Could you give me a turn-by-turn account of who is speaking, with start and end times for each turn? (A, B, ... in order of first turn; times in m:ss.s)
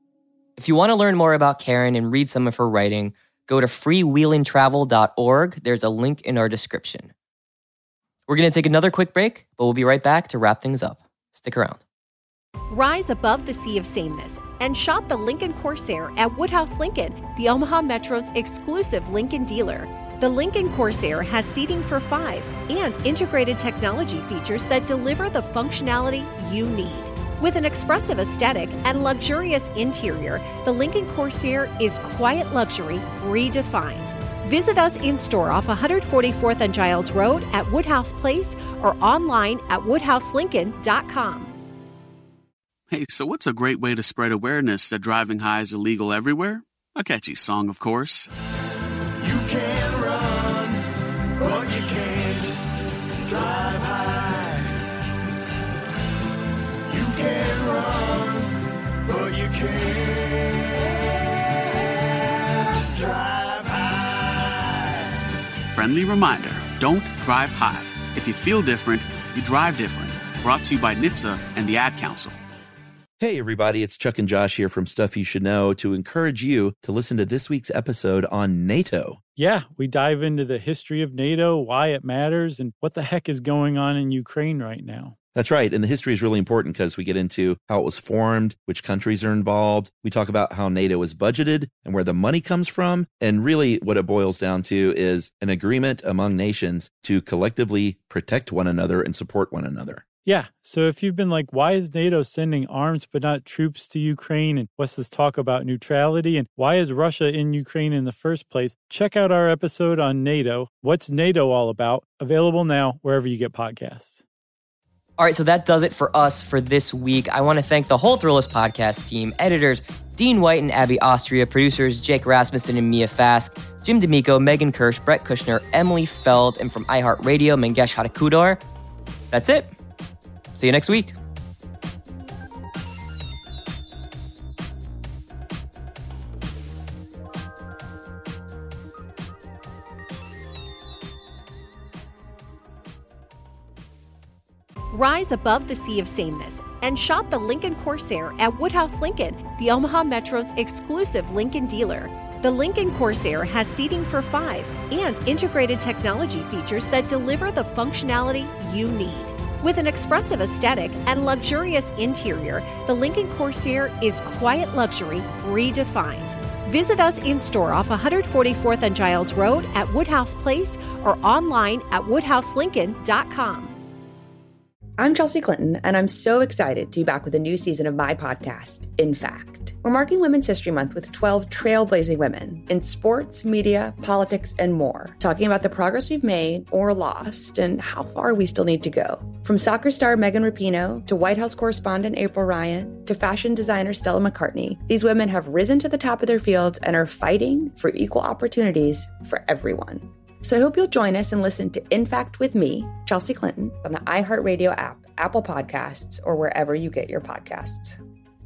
0:00.6-0:07.1 A
0:08.3-0:11.8 A
0:12.7-0:41.5 B
0:42.9-0:48.3 C
0:49.2-0:50.8 D
0:51.4-0:52.5 D
0:53.2-0:54.6 D
0:56.9-0:58.5 D
0:59.1-1:00.6 D
1:02.8-1:03.9 D
1:05.7-1:12.4 C
1:13.2-1:19.2 E
1:19.4-1:25.1 F
1:25.3-1:40.1 E
1:40.2-1:54.2 F
1:55.2-2:08.6 A
2:09.3-2:09.7 A
2:10.5-2:11.1 A
2:24.9-2:53.7 B
2:55.0-3:28.0 G